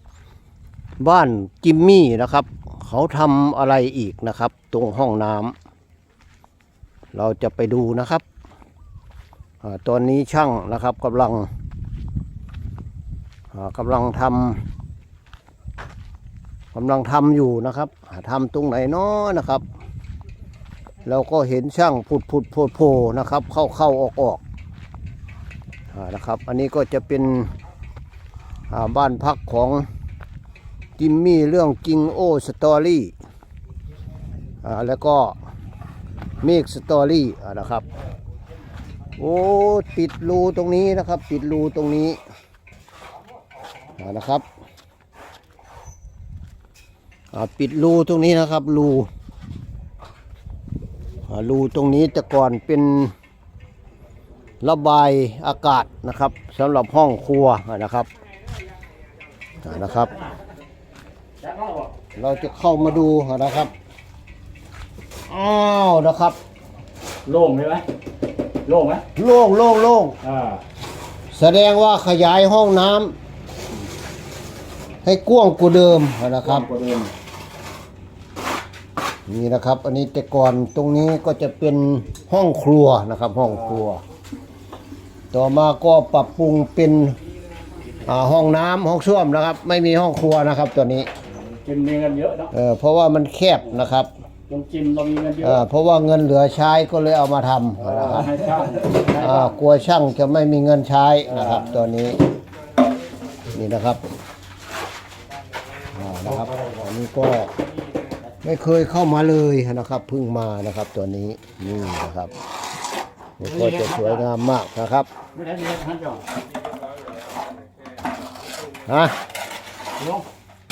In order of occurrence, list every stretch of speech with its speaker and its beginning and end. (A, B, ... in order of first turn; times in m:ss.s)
0:01.0-0:05.5 A
0:07.1-0:08.2 A
0:09.6-0:11.5 A
0:13.5-0:14.6 A
0:16.7-0:19.6 A
0:21.0-0:24.4 A
0:25.9-0:27.5 A
0:28.7-0:29.8 A
0:31.0-0:33.1 A
0:34.6-0:35.4 A
0:36.4-0:37.8 A
0:39.2-0:42.2 A
0:44.0-0:44.4 A
0:47.3-0:49.1 A
0:51.3-0:53.1 A
0:54.6-0:58.1 A
0:59.6-1:00.2 A
1:01.4-1:01.9 B
1:02.2-1:03.7 A
1:05.3-1:06.4 A
1:07.2-1:07.8 B
1:08.6-1:09.0 B
1:09.2-1:10.2 A
1:10.2-1:10.6 B
1:11.3-1:13.2 A
1:15.0-1:16.7 A
1:16.5-1:17.1 B
1:19.3-1:24.0 A
1:25.3-1:27.2 A
1:28.0-1:31.1 A
1:31.5-1:32.5 B
1:32.5-1:34.1 A
1:34.5-1:35.6 B
1:35.4-1:42.2 A
1:37.8-1:39.5 B
1:43.5-1:44.1 A
1:45.9-1:47.5 A
1:48.4-1:52.3 A
1:53.4-1:55.1 A
1:53.5-1:54.2 B
1:55.3-1:56.2 B
1:58.8-1:59.2 A
2:00.0-2:00.3 B